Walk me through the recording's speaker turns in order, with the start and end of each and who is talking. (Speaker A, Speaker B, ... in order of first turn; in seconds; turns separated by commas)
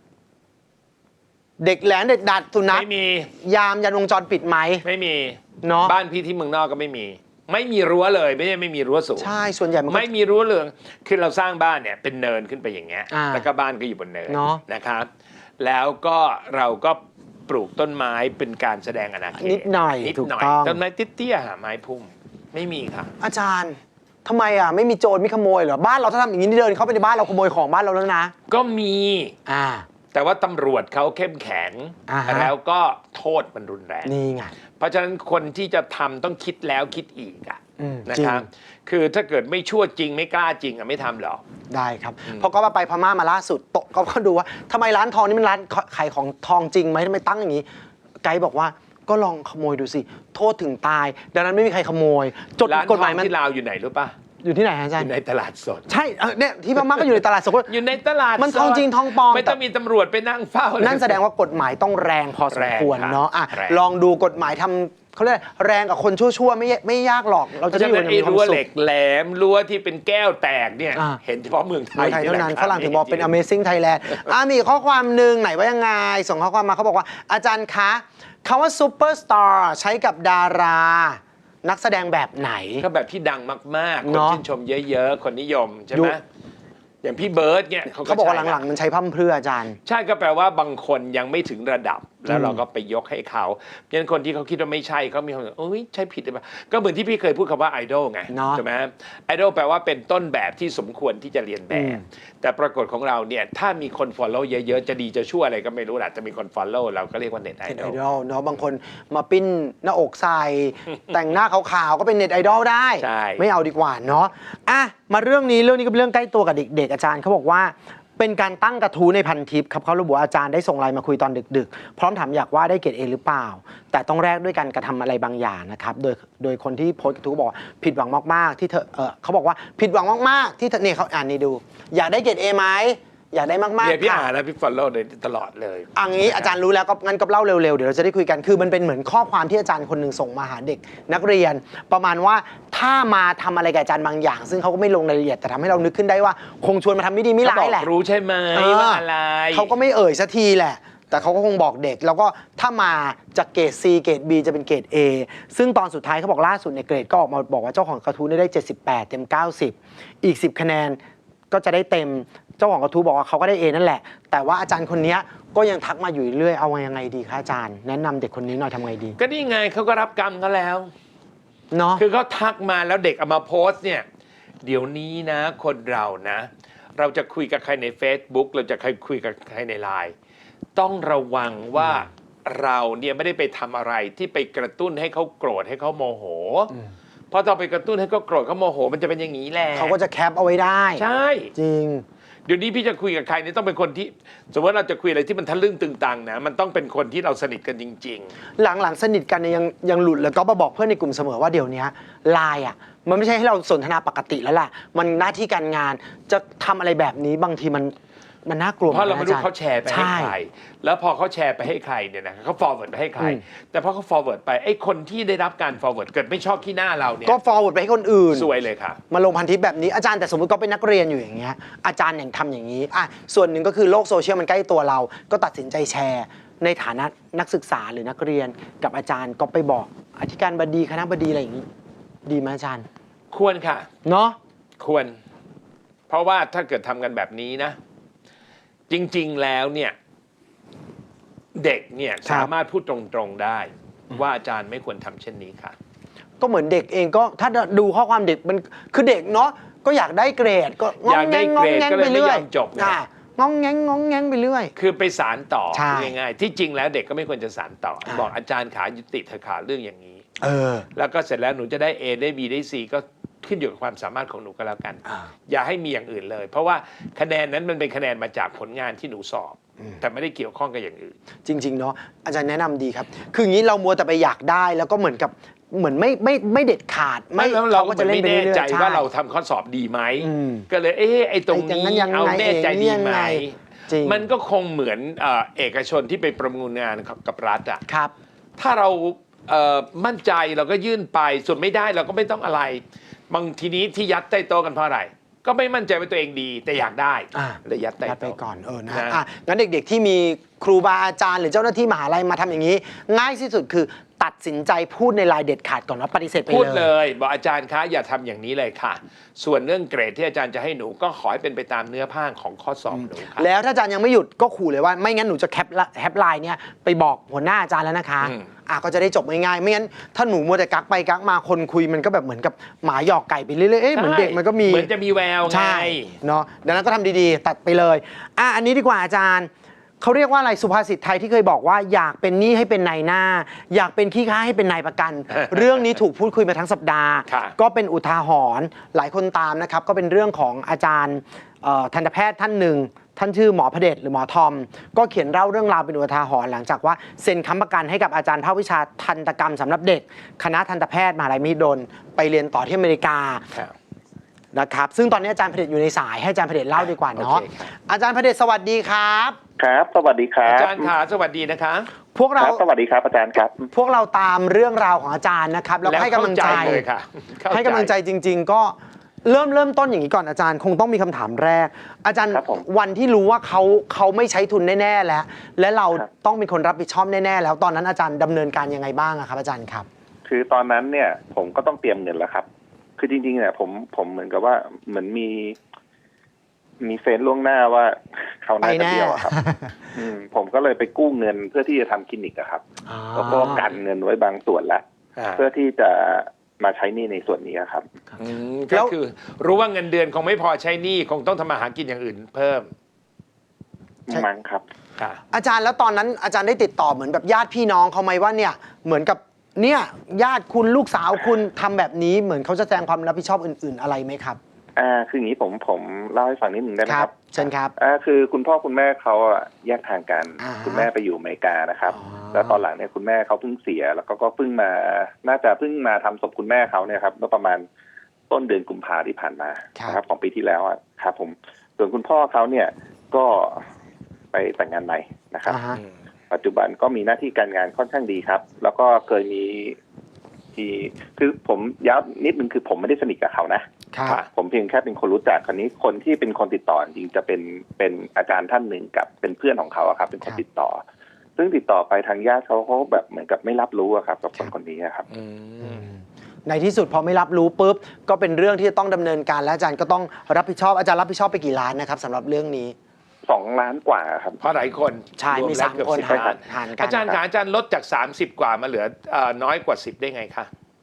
Speaker A: 1.6-4.8, Speaker B: 2.7-3.3, Speaker B: 4.8-9.4, Speaker A: 5.6-6.0, Speaker A: 9.2-10.1, Speaker B: 9.9-23.1, Speaker A: 13.1-13.5, Speaker A: 14.3-14.6, Speaker A: 19.4-20.8, Speaker A: 23.2-28.3, Speaker B: 28.5-29.3, Speaker A: 29.5-29.9, Speaker B: 30.1-34.1, Speaker A: 32.1-32.5, Speaker A: 34.0-34.5, Speaker B: 34.8-41.4, Speaker A: 37.8-38.5, Speaker A: 41.7-47.7, Speaker A: 48.2-53.3, Speaker B: 52.6-54.1, Speaker A: 54.4-55.1, Speaker B: 55.0-55.9, Speaker A: 55.9-57.7, Speaker B: 56.8-61.2, Speaker A: 58.4-59.6, Speaker A: 60.8-68.6, Speaker B: 62.5-63.8, Speaker B: 67.6-73.3, Speaker A: 71.0-71.2, Speaker A: 72.0-82.9, Speaker B: 82.8-86.2, Speaker A: 84.0-84.4, Speaker A: 85.9-86.2, Speaker B: 87.0-88.6, Speaker A: 87.9-89.8, Speaker B: 89.8-108.0, Speaker A: 92.3-92.6, Speaker A: 98.3-98.6, Speaker A: 101.7-102.0, Speaker A: 107.7-134.3, Speaker B: 113.0-113.5, Speaker B: 133.8-136.6, Speaker A: 135.9-147.9, Speaker B: 147.4-149.7, Speaker A: 148.5-161.0, Speaker A: 161.5-169.2, Speaker B: 169.2-170.9, Speaker A: 171.7-172.0, Speaker B: 172.0-174.1, Speaker B: 174.6-180.1, Speaker B: 180.8-186.7, Speaker B: 187.3-190.0, Speaker A: 189.7-191.0, Speaker B: 191.0-191.5, Speaker A: 191.6-192.1, Speaker B: 192.5-198.3, Speaker A: 198.6-210.4, Speaker B: 208.9-217.4, Speaker A: 217.3-218.5, Speaker B: 218.3-219.0, Speaker A: 219.1-231.7, Speaker A: 232.3-232.9, Speaker B: 233.3-233.9, Speaker A: 234.0-234.4, Speaker B: 234.8-235.2, Speaker B: 236.1-237.8, Speaker B: 238.9-240.0, Speaker B: 241.6-245.8, Speaker A: 242.2-242.5, Speaker A: 246.4-254.7, Speaker B: 251.0-253.0, Speaker B: 254.8-260.2, Speaker A: 255.7-256.1, Speaker A: 260.4-260.9, Speaker B: 260.9-271.2, Speaker A: 271.4-279.1, Speaker B: 277.4-287.8, Speaker A: 280.2-280.7, Speaker A: 281.5-284.2, Speaker A: 287.9-288.1, Speaker B: 288.6-298.4, Speaker A: 297.3-306.9, Speaker B: 298.9-299.2, Speaker B: 306.5-313.5, Speaker A: 312.9-324.9, Speaker B: 323.9-326.2, Speaker A: 325.5-353.4, Speaker B: 335.4-335.6, Speaker B: 337.3-337.6, Speaker A: 354.5-359.4, Speaker B: 356.9-357.7, Speaker C: 359.6-360.9, Speaker B: 360.4-361.9, Speaker A: 362.1-362.6, Speaker C: 362.4-363.7, Speaker A: 363.7-366.9, Speaker B: 365.8-367.9, Speaker A: 367.5-379.9, Speaker C: 372.3-372.6, Speaker C: 380.3-382.5, Speaker C: 383.0-385.6, Speaker C: 386.8-389.3, Speaker A: 388.6-389.9, Speaker C: 389.9-392.6, Speaker A: 392.9-393.7, Speaker C: 393.1-394.8, Speaker B: 395.2-395.4, Speaker C: 395.4-397.9, Speaker B: 398.2-402.7, Speaker C: 404.1-404.6, Speaker A: 405.3-414.4, Speaker C: 414.8-427.6, Speaker A: 416.9-417.7, Speaker A: 420.4-420.9, Speaker A: 421.9-422.6, Speaker C: 428.3-433.7, Speaker C: 434.3-435.6, Speaker A: 435.5-435.8, Speaker C: 436.3-439.8, Speaker C: 440.6-443.7, Speaker A: 443.9-444.2, Speaker C: 444.3-450.8, Speaker C: 451.4-455.1, Speaker B: 455.1-455.9, Speaker A: 455.6-462.8, Speaker C: 463.3-464.4, Speaker B: 464.4-470.5, Speaker A: 465.2-467.1, Speaker C: 466.0-466.4